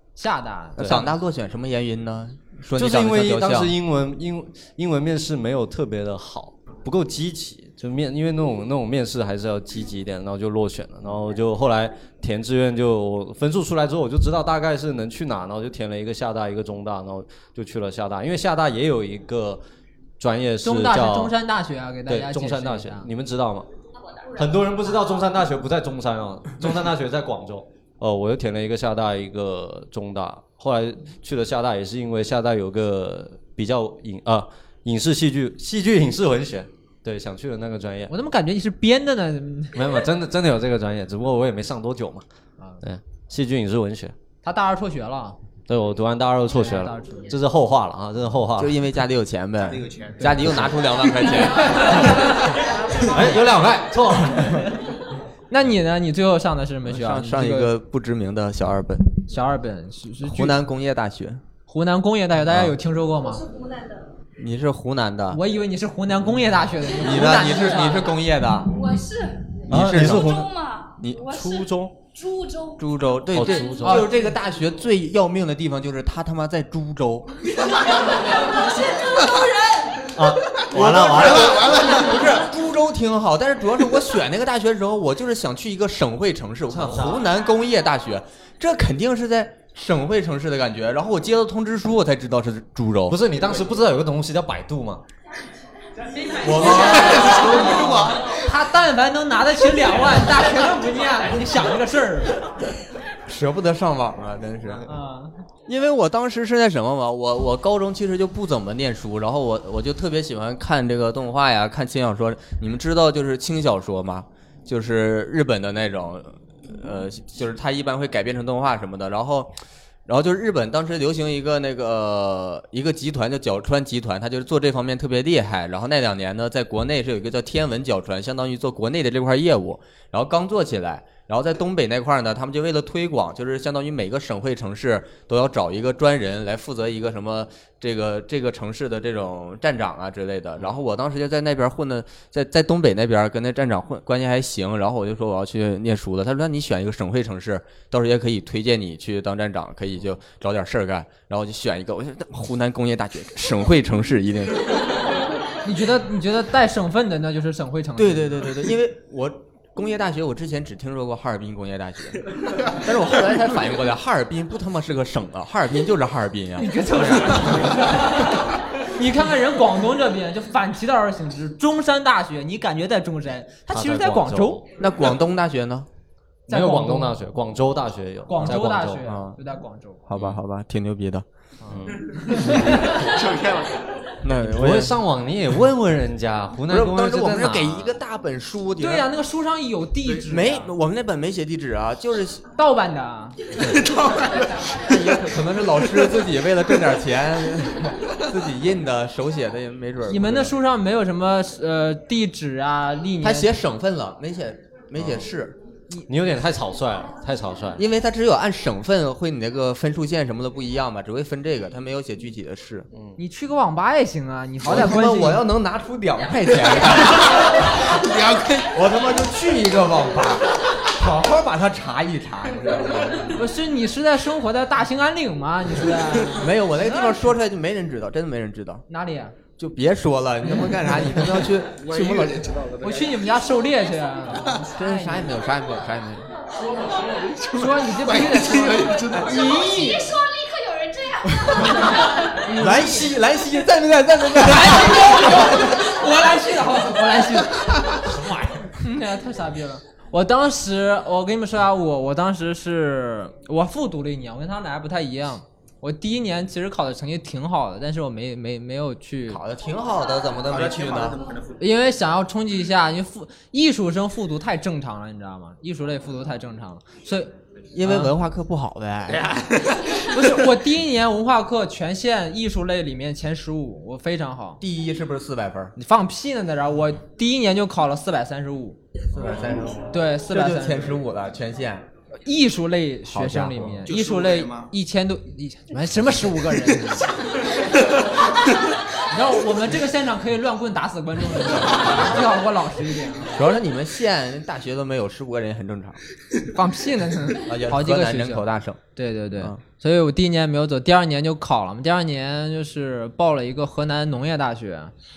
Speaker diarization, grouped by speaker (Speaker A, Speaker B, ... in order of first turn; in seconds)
Speaker A: 0.2-1.1, 20.6-23.1, 38.1-39.8, 44.4-45.4, 46.6-47.3, 55.5-57.7, 59.3-60.6, 61.7-63.4, 65.3-68.2, 73.8-74.1, 98.3-102.4, 104.9-105.3, 155.6-158.4, 166.6-174.6, 176.5-177.2, 178.3-180.0, 182.3-182.6, 188.8-190.7, 192.6-193.4, 200.1-203.5, 213.2-215.4, 223.4-227.2, 228.9-229.4, 232.8-235.3, 237.5-240.2, 241.7-243.1, 244.4-248.1, 248.7-259.4, 261.6-268.1, 270.1-274.6, 275.8-278.8, 279.9-281.0, 282.2-287.1, 289.1-293.4, 296.5-304.9
Speaker B: 0.8-3.8, 48.6-52.0, 56.9-59.1, 60.2-61.4, 64.4-65.4, 67.0-68.7, 69.7-70.4, 71.0-71.3, 72.8-77.3, 80.7-93.2, 96.4-98.2, 103.3-104.9, 105.7-154.7, 158.0-167.9, 174.8-175.9, 179.0-179.4, 180.1-181.2, 184.2-185.0, 186.7-189.1, 190.2-192.4, 194.8-200.5, 203.2-205.6, 207.8-212.9, 214.6-217.5, 218.7-223.4, 226.4-228.8, 229.6-232.5, 234.6-236.3, 242.6-245.7, 259.3-261.2, 267.7-269.3, 274.6-275.7, 279.1-281.9, 283.1-283.9, 293.3-296.0, 297.4-298.8
Speaker C: 2.8-19.6, 20.2-21.3, 22.1-23.7, 24.4-38.1, 39.8-42.2, 42.8-44.1, 45.7-48.8, 53.0-54.7, 69.7-70.5, 71.2-71.9, 73.3-74.1, 80.2-81.8, 86.7-87.2, 93.1-95.0, 173.7-174.6, 176.5-179.1, 180.2-180.4, 181.7-182.1, 184.4-188.0, 205.0-205.3, 206.1-207.8, 248.1-248.6
Speaker D: 49.6-51.4, 80.8-82.4, 96.5-98.2, 182.9-183.9, 193.7-194.5, 217.8-218.7, 231.7-233.3, 236.9-239.4, 260.5-261.6, 269.1-269.8, 283.9-284.7
Speaker E: 63.4-64.0, 68.7-72.9, 77.8-80.2, 239.2-242.3